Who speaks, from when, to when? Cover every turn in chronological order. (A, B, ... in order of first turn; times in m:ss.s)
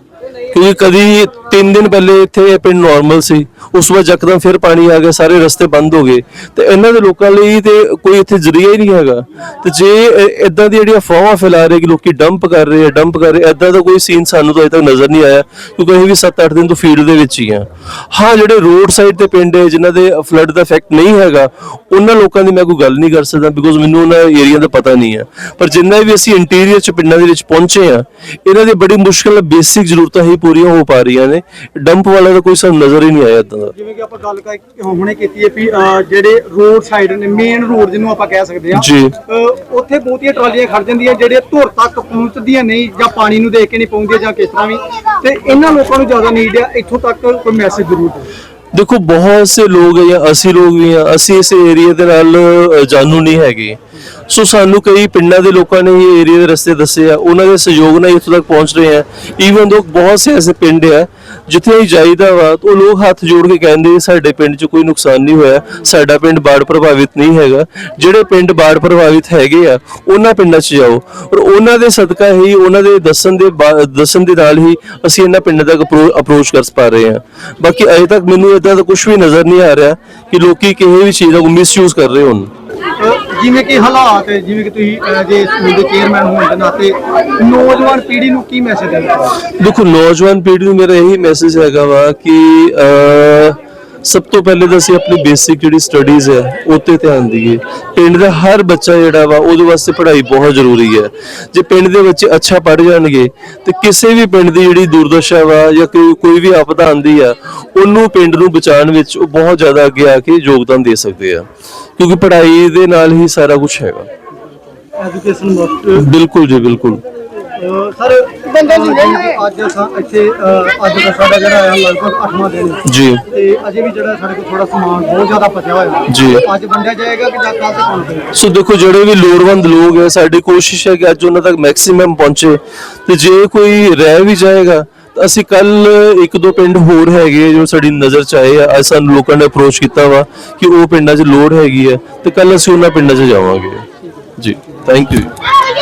0:00.5-0:33.7 A
0:33.8-0:48.3 B
0:38.7-0:39.2 A
0:48.7-0:53.8 A
0:54.3-1:22.5 A
1:23.0-1:29.4 B
1:29.6-1:51.4 A
1:52.0-1:54.1 A
1:55.0-1:56.1 B
1:56.0-1:57.0 A
1:57.6-2:08.3 B
2:02.9-2:03.2 A
2:06.1-2:06.4 A
2:08.4-2:23.9 A
2:24.4-2:25.3 A